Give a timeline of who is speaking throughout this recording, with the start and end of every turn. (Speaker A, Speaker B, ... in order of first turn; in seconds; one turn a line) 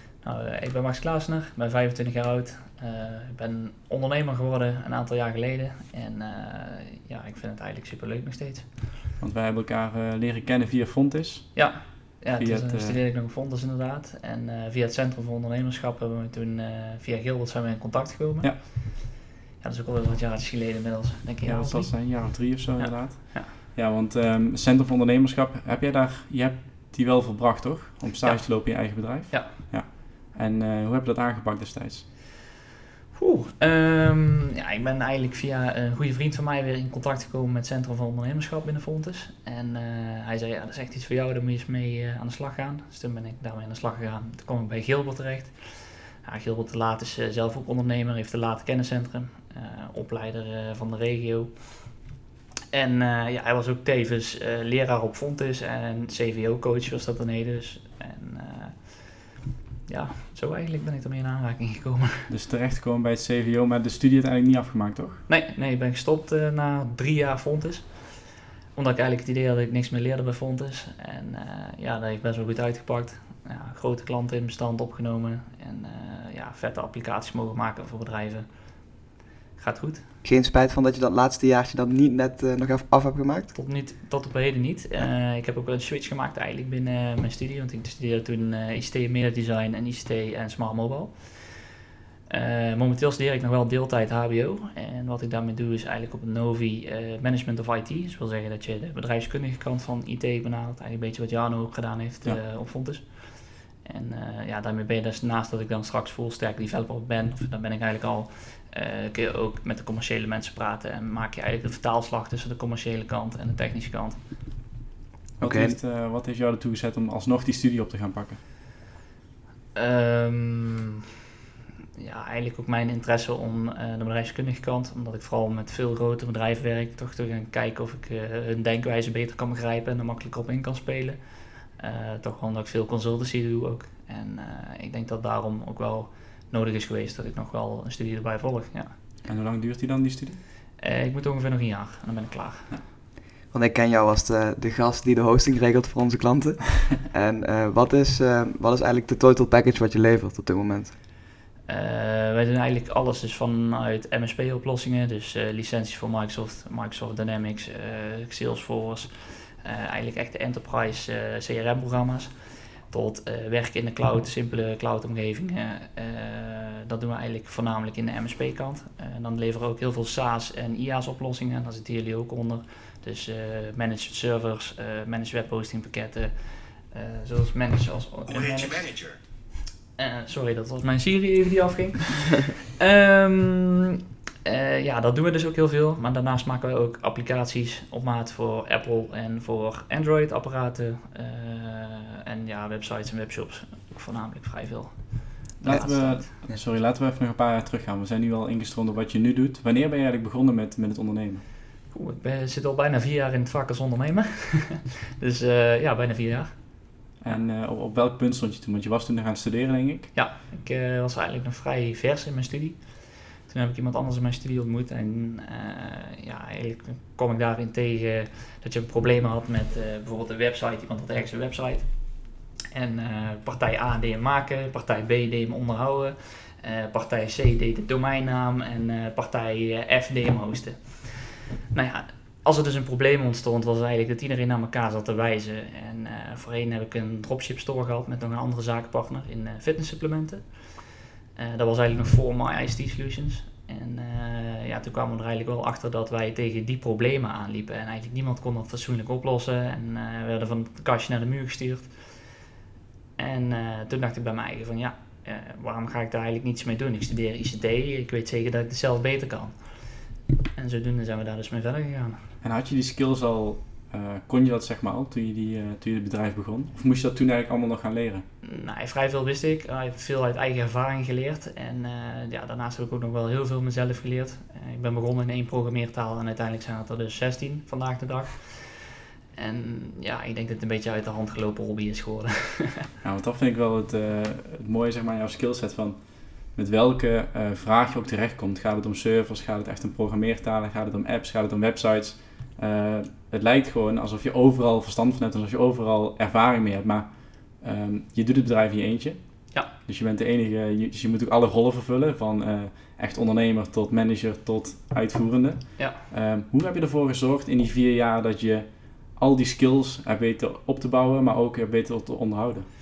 Speaker A: 0.2-8.8
Speaker B: 9.2-13.0
Speaker A: 11.5-23.5
Speaker B: 21.4-32.0
Speaker A: 28.2-29.5
Speaker A: 33.1-52.0
Speaker A: 52.7-59.3
Speaker A: 59.9-62.3
Speaker B: 62.3-65.2
Speaker A: 65.3-79.0
Speaker A: 79.5-80.1
Speaker C: 80.2-83.5
Speaker A: 83.5-91.7
Speaker A: 92.3-114.2
Speaker B: 115.4-118.4
Speaker C: 115.4-115.8
Speaker A: 119.7-121.0
Speaker A: 122.0-131.2
Speaker A: 131.7-138.9
Speaker B: 139.2-140.4
Speaker A: 140.8-142.7
Speaker C: 143.5-150.9
Speaker A: 151.7-179.3
Speaker A: 179.9-196.3
Speaker B: 195.6-201.4
Speaker C: 195.6-195.9
Speaker A: 201.9-207.4
Speaker B: 207.2-210.1
Speaker A: 210.1-240.8
Speaker A: 241.3-252.3
Speaker A: 253.2-260.0
Speaker A: 260.5-262.2
Speaker B: 262.4-268.2
Speaker A: 268.4-282.9
Speaker B: 283.0-312.7